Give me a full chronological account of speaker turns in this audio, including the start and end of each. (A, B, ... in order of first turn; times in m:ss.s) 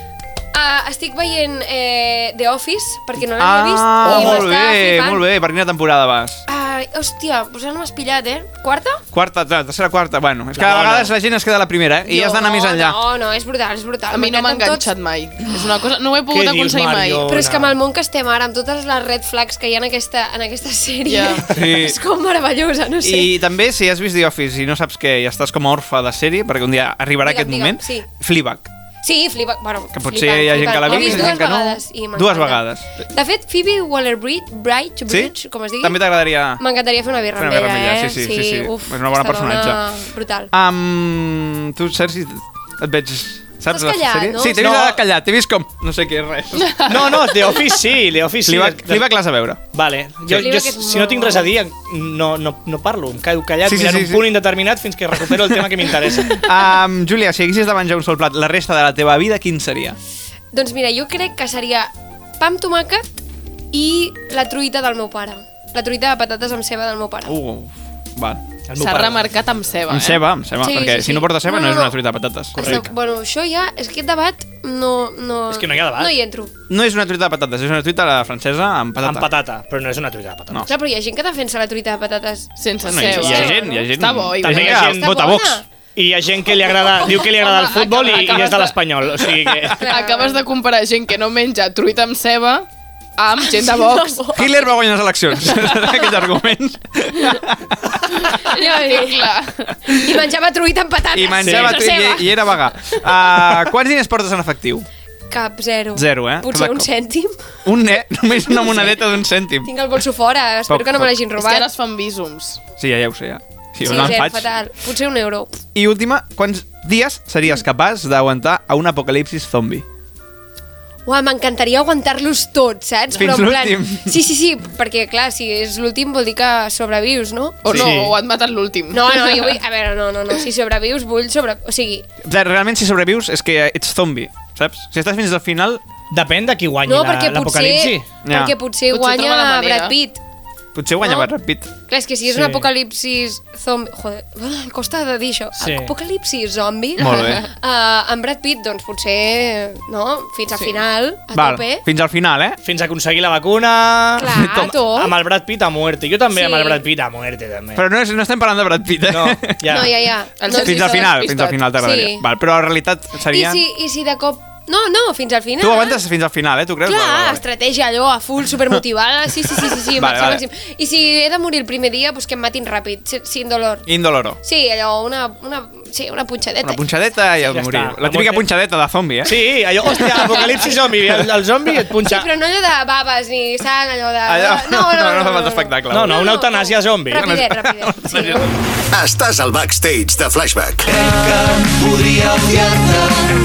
0:00.5-0:05.2 A
0:03.4-0:06.4 B
0:04.0-0:04.5 C
0:06.5-0:09.0 A
0:09.1-0:13.0 B
0:10.6-0:11.1 C
0:12.0-0:14.9 A
0:14.1-0:17.3 D
0:16.3-0:17.8 C
0:17.3-0:23.3 A
0:21.0-0:21.6 D
0:21.5-0:22.0 B
0:23.0-0:28.7 B
0:27.2-0:28.1 A
0:29.0-0:36.0 A
0:29.9-0:33.0 B
0:30.8-0:31.3 C
0:35.1-0:36.6 B
0:36.6-0:40.5 A
0:37.4-0:39.8 B
0:40.5-0:46.8 B
0:43.7-0:44.7 A
0:44.6-0:45.0 C
0:46.5-0:47.6 D
0:46.8-0:49.0 C
0:48.4-0:49.6 B
0:49.7-0:56.4 C
0:50.2-0:50.5 B
0:50.3-0:51.5 A
0:53.6-0:54.3 B
0:55.3-0:55.6 B
0:56.2-1:00.0 B
1:00.5-1:07.4 A
1:07.2-1:08.4 B
1:08.7-1:09.6 C
1:08.8-1:10.2 D
1:09.9-1:12.8 B
1:10.6-1:12.0 A
1:12.5-1:12.9 C
1:12.5-1:16.5 A
1:15.5-1:16.1 C
1:16.7-1:19.3 B
1:19.0-1:20.7 C
1:20.6-1:23.9 A
1:22.6-1:25.0 D
1:22.8-1:25.6 B
1:23.0-1:23.6 C
1:24.4-1:29.8 C
1:24.7-1:25.6 A
1:27.0-1:28.5 A
1:27.4-1:28.7 D
1:29.7-1:30.4 A
1:29.8-1:34.2 D
1:33.4-1:34.6 A
1:34.3-1:38.2 B
1:35.6-1:36.0 A
1:38.2-1:42.5 A
1:38.3-1:39.7 D
1:41.1-1:44.8 B
1:41.4-1:41.8 C
1:45.3-1:47.6 A
1:46.0-1:46.9 B
1:47.6-1:49.7 B
1:48.6-1:48.9 A
1:49.6-1:51.7 A
1:50.7-1:51.1 B
1:51.4-1:52.6 D
1:52.8-1:54.5 B
1:53.8-1:55.6 A
1:55.7-1:59.8 B
2:01.0-2:07.7 A
2:03.1-2:04.2 B
2:07.6-2:09.5 D
2:07.6-2:07.9 B
2:07.7-2:08.2 C
2:08.9-2:12.0 A
2:12.2-2:15.8 B
2:16.1-2:18.1 C
2:16.8-2:20.2 A
2:18.2-2:18.6 B
2:18.9-2:19.9 D
2:20.7-2:21.7 B
2:21.0-2:21.3 A
2:21.9-2:31.8 A
2:22.3-2:22.7 C
2:25.6-2:25.9 C
2:27.0-2:27.4 B
2:27.0-2:27.4 D
2:31.3-2:32.6 B
2:32.6-2:37.8 C
2:34.2-2:35.1 A
2:34.3-2:34.7 B
2:36.3-2:36.8 A
2:37.7-2:39.9 B
2:39.1-2:40.0 C
2:39.7-2:41.2 A
2:40.4-2:41.6 D
2:40.5-2:43.6 B
2:41.8-2:42.2 A
2:43.3-2:46.0 A
2:45.6-2:47.4 B
2:46.8-2:53.9 A
2:49.6-2:50.4 B
2:53.9-2:54.4 B
2:54.4-2:56.8 A
2:56.6-2:59.4 B
2:57.5-2:58.5 C
2:59.2-3:02.3 C
3:02.0-3:08.5 A
3:04.2-3:06.2 B
3:05.9-3:07.3 C
3:07.1-3:08.5 B
3:08.9-3:11.0 E
3:11.0-3:13.1 C